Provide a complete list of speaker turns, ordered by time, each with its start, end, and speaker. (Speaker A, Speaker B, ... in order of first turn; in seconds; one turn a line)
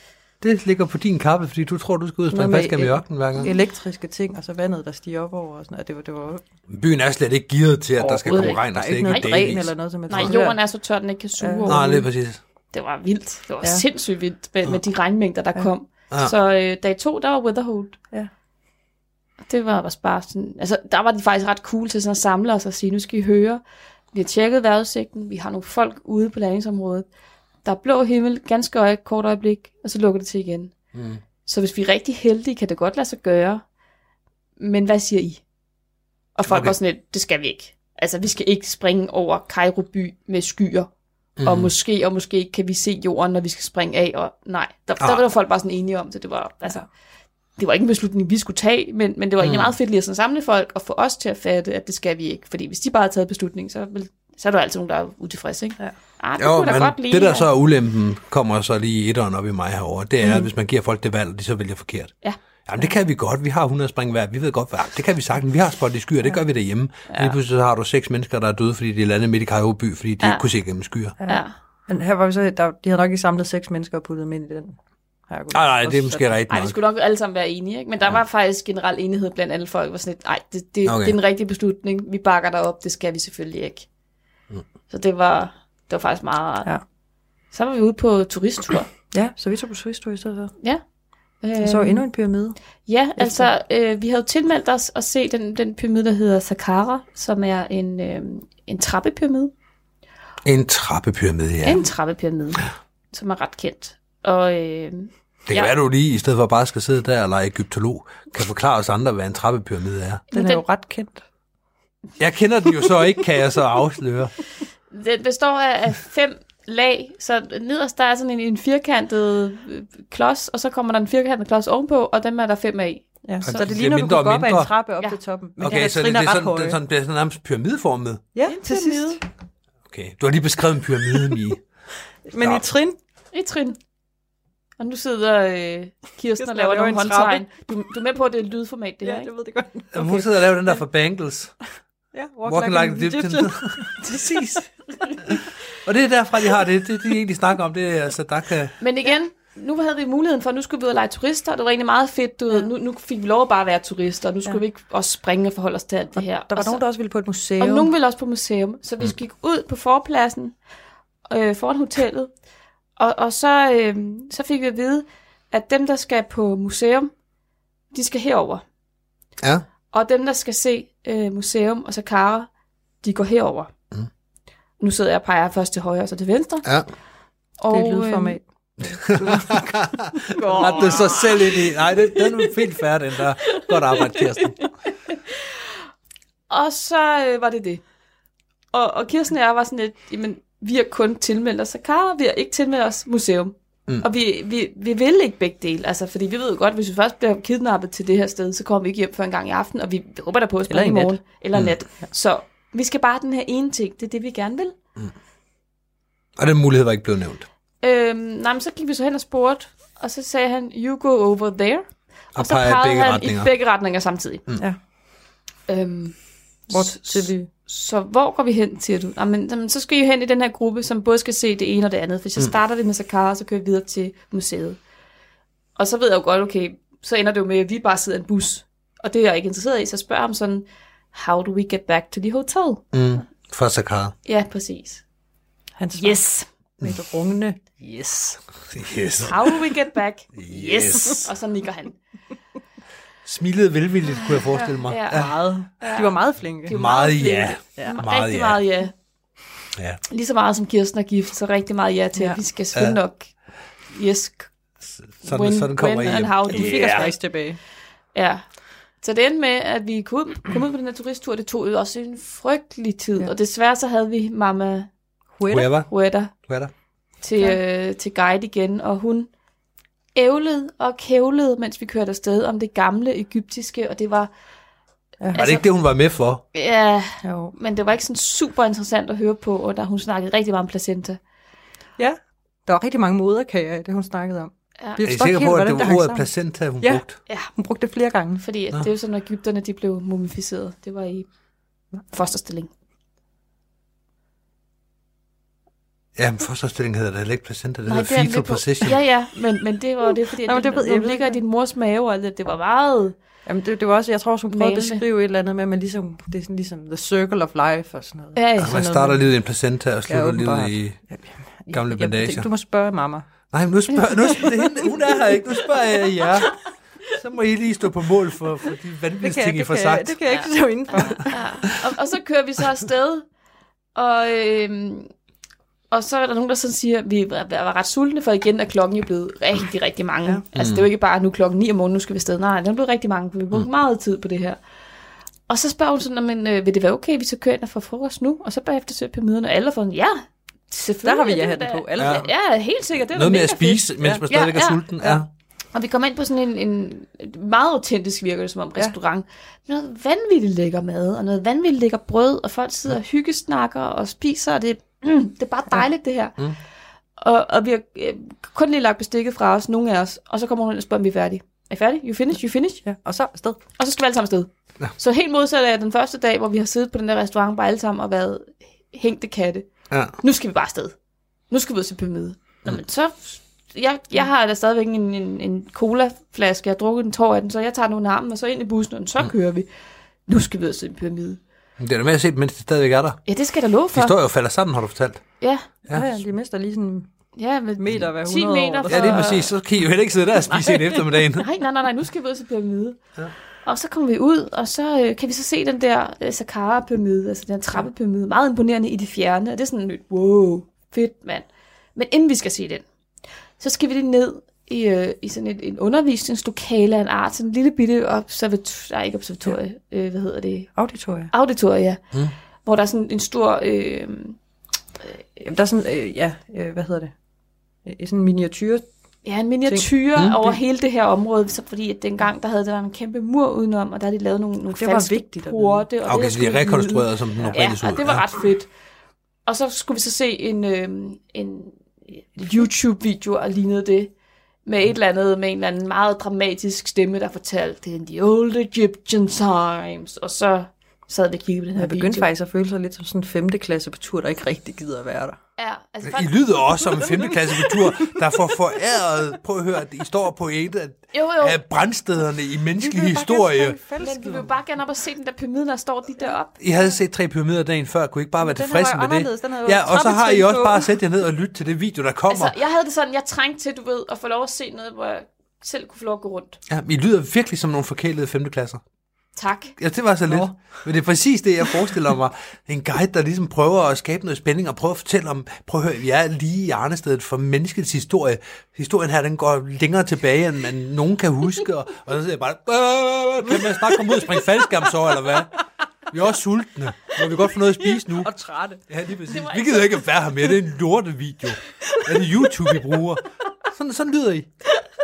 Speaker A: 0.4-3.5
Speaker B: 2.3-6.4
Speaker A: 6.7-10.3
Speaker C: 8.0-9.5
Speaker B: 8.0-10.6
Speaker C: 10.1-12.1
Speaker B: 11.4-11.8
Speaker A: 11.7-12.4
Speaker C: 12.7-18.0
Speaker C: 19.5-23.6
Speaker C: 24.1-27.1
Speaker C: 27.6-30.7
Speaker A: 30.9-31.2
Speaker C: 31.4-33.6
Speaker C: 34.6-35.4
Speaker C: 36.4-40.9
Speaker A: 36.5-36.7
Speaker A: 41.4-41.7
Speaker C: 41.4-46.9
Speaker C: 47.6-57.5
Speaker A: 49.4-49.8
Speaker A: 56.4-62.1
Speaker A: 62.7-71.1
Speaker C: 67.1-67.3
Speaker B: 71.2-74.8
Speaker C: 71.3-71.5
Speaker B: 75.3-76.3
Speaker A: 75.5-76.8
Speaker C: 76.5-83.8
Speaker A: 80.8-81.2
Speaker C: 84.9-86.7
Speaker C: 87.5-88.9
Speaker B: 89.1-90.5
Speaker C: 91.4-92.0
Speaker B: 91.6-92.5
Speaker C: 92.8-99.5
Speaker B: 93.2-93.5
Speaker A: 100.4-101.8
Speaker C: 101.6-105.7
Speaker A: 105.5-110.2
Speaker C: 110.3-110.6
Speaker B: 110.3-111.2
Speaker A: 112.2-114.3
Speaker C: 114.9-123.7
Speaker B: 123.2-126.8
Speaker A: 123.4-124.7
Speaker A: 125.6-128.2
Speaker B: 128.3-129.2
Speaker C: 128.4-129.2
Speaker A: 129.9-131.6
Speaker B: 132.3-132.9
Speaker A: 132.4-132.7
Speaker C: 133.3-133.8
Speaker C: 134.8-139.3
Speaker B: 136.4-137.5
Speaker B: 139.0-140.2
Speaker A: 139.9-141.5
Speaker B: 142.1-144.4
Speaker A: 142.4-143.8
Speaker C: 144.0-144.6
Speaker A: 145.8-148.7
Speaker C: 148.8-156.8
Speaker B: 156.2-157.9
Speaker C: 157.6-160.5
Speaker C: 161.3-162.3
Speaker C: 163.0-167.1
Speaker C: 167.9-168.6
Speaker A: 169.4-169.6
Speaker C: 169.9-172.5
Speaker C: 173.0-173.7
Speaker C: 174.8-176.7
Speaker C: 177.6-178.4
Speaker B: 177.7-178.4
Speaker A: 178.8-184.6
Speaker B: 178.9-180.9
Speaker C: 180.3-181.6
Speaker C: 183.4-184.4
Speaker C: 185.1-185.6
Speaker C: 186.5-187.8
Speaker C: 188.7-204.7
Speaker B: 200.7-201.2
Speaker A: 206.4-207.5
Speaker C: 207.8-214.4
Speaker A: 212.3-213.5
Speaker C: 215.7-216.2
Speaker C: 216.7-224.8
Speaker B: 216.7-217.5
Speaker C: 225.8-232.8
Speaker A: 232.9-234.1
Speaker C: 234.2-235.0
Speaker B: 235.8-236.2
Speaker C: 235.9-236.4
Speaker B: 236.8-237.7
Speaker A: 238.7-239.6
Speaker C: 239.2-242.0
Speaker A: 240.3-241.3
Speaker A: 243.2-245.3
Speaker C: 244.3-248.9
Speaker B: 245.1-246.8
Speaker A: 246.7-248.6
Speaker C: 250.1-253.3
Speaker C: 253.9-254.5
Speaker A: 255.0-257.1
Speaker C: 255.2-257.1
Speaker B: 256.4-257.6
Speaker C: 258.1-258.4
Speaker C: 259.0-264.9
Speaker B: 265.4-265.7
Speaker A: 265.5-265.9
Speaker C: 265.8-266.3
Speaker A: 266.4-266.7
Speaker C: 267.2-269.3
Speaker C: 270.1-274.3
Speaker C: 275.3-275.6
Speaker A: 275.3-276.4
Speaker C: 276.5-281.2
Speaker B: 277.2-277.5
Speaker B: 282.0-288.4
Speaker A: 285.0-287.2
Speaker C: 288.4-291.2
Speaker C: 292.1-292.7
Speaker A: 296.1-299.0
Speaker C: 297.9-303.1
Speaker B: 300.4-301.4
Speaker B: 303.4-309.2
Speaker C: 304.5-305.0
Speaker C: 308.3-308.8
Speaker A: 308.6-311.0
Speaker B: 310.1-313.2
Speaker A: 311.7-312.5
Speaker A: 313.5-316.5
Speaker B: 314.3-314.9
Speaker B: 316.1-316.5
Speaker A: 317.1-320.2
Speaker B: 319.2-321.4
Speaker C: 321.1-323.2
Speaker C: 323.9-325.1
Speaker C: 325.9-334.6
Speaker A: 330.5-330.9
Speaker C: 335.5-344.8
Speaker B: 341.0-342.3
Speaker A: 342.0-342.3
Speaker A: 343.1-345.3
Speaker C: 345.7-356.4
Speaker C: 357.2-362.8
Speaker B: 362.8-363.6
Speaker C: 363.8-369.7
Speaker C: 370.2-370.9
Speaker C: 371.5-379.7
Speaker C: 380.3-381.4
Speaker A: 381.8-383.2
Speaker C: 383.3-384.1
Speaker A: 383.9-385.2
Speaker C: 385.4-385.6
Speaker B: 385.9-387.1
Speaker C: 387.4-389.5
Speaker B: 387.8-389.3
Speaker A: 388.9-391.4
Speaker B: 390.5-391.2
Speaker C: 391.4-393.0
Speaker C: 393.6-402.8
Speaker C: 403.6-410.7
Speaker B: 410.7-411.3
Speaker C: 411.3-412.0
Speaker C: 412.6-414.4
Speaker B: 415.4-417.1
Speaker B: 417.8-418.9
Speaker C: 419.2-428.7
Speaker B: 424.7-425.9
Speaker A: 426.0-428.2
Speaker C: 429.4-434.1
Speaker C: 434.6-442.3
Speaker B: 441.8-445.4
Speaker C: 445.6-447.3
Speaker A: 446.0-453.8
Speaker C: 451.1-451.6
Speaker B: 452.8-454.5
Speaker C: 454.0-456.6
Speaker A: 456.6-462.5
Speaker B: 458.4-460.9
Speaker C: 462.3-466.6
Speaker A: 466.7-468.8
Speaker C: 469.4-469.7
Speaker A: 469.8-485.5
Speaker B: 470.3-470.7
Speaker B: 483.5-484.4
Speaker A: 486.1-488.3
Speaker B: 487.8-488.8
Speaker A: 488.9-494.5
Speaker C: 489.3-489.9